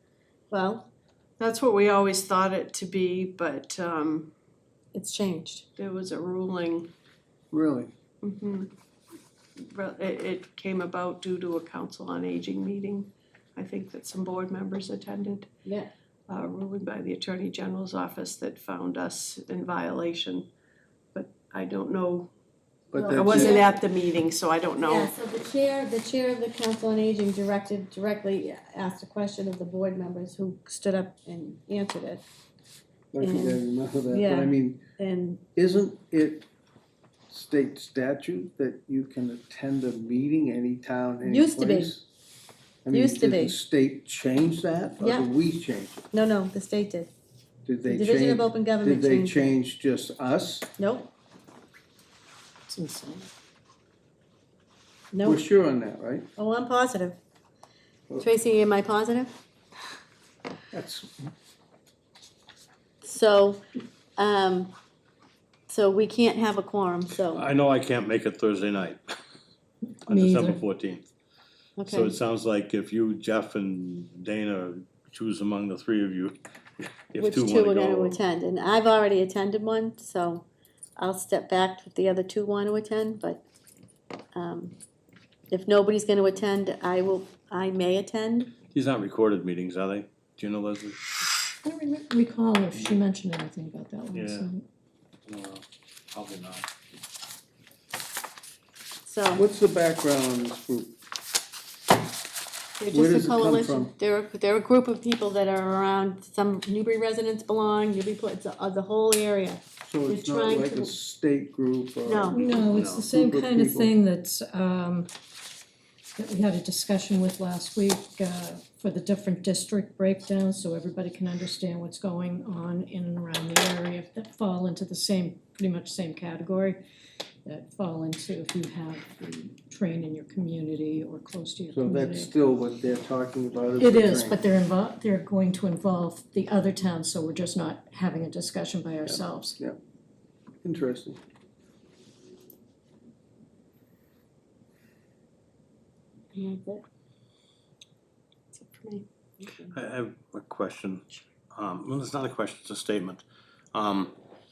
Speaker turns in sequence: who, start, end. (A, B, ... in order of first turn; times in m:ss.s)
0:00.5-0:00.9 A
0:01.4-0:04.3 B
0:04.9-0:05.6 A
0:05.8-0:06.9 B
0:07.5-0:07.9 C
0:08.2-0:08.7 B
0:09.6-0:15.5 B
0:16.3-0:20.5 B
0:21.1-0:22.3 B
0:22.9-0:23.6 C
0:22.9-0:23.7 A
0:23.1-0:25.1 B
0:24.8-0:32.2 A
0:33.1-0:34.8 C
0:33.2-0:35.4 A
0:35.5-0:36.5 C
0:37.3-0:42.0 C
0:41.2-0:41.9 A
0:42.8-0:46.1 C
0:42.9-0:43.6 A
0:45.0-0:45.3 A
0:46.1-0:47.1 A
0:47.6-0:50.7 C
0:47.9-0:49.5 A
0:50.8-0:51.1 A
0:52.7-0:53.3 D
0:55.1-0:55.4 A
0:55.2-0:56.3 C
0:56.4-0:57.2 A
0:58.2-0:59.3 A
1:00.7-1:01.3 C
1:03.0-1:03.6 A
1:04.2-1:04.7 A
1:05.7-1:07.4 A
1:07.2-1:09.0 E
1:10.1-1:10.6 D
1:10.1-1:11.0 E
1:11.8-1:12.2 A
1:11.8-1:16.4 E
1:17.1-1:18.2 E
1:17.2-1:20.4 A
1:21.0-1:23.4 A
1:24.3-1:24.7 A
1:25.5-1:28.5 A
1:28.7-1:31.0 E
1:31.6-1:34.6 D
1:34.1-1:34.5 E
1:35.3-1:36.7 E
1:39.0-1:39.4 A
1:39.3-1:40.9 C
1:42.8-1:50.9 A
1:42.9-1:43.9 C
1:49.8-1:53.9 C
1:52.0-1:52.4 A
1:52.3-1:55.1 D
1:52.6-1:53.1 E
1:56.2-2:06.8 D
2:07.4-2:12.3 D
2:11.7-2:14.4 C
2:13.8-2:19.6 D
2:19.0-2:19.8 C
2:20.6-2:21.2 C
2:26.3-2:26.8 A
2:28.5-2:29.0 B
2:29.4-2:29.7 A
2:29.7-2:33.2 E
2:33.7-2:34.1 E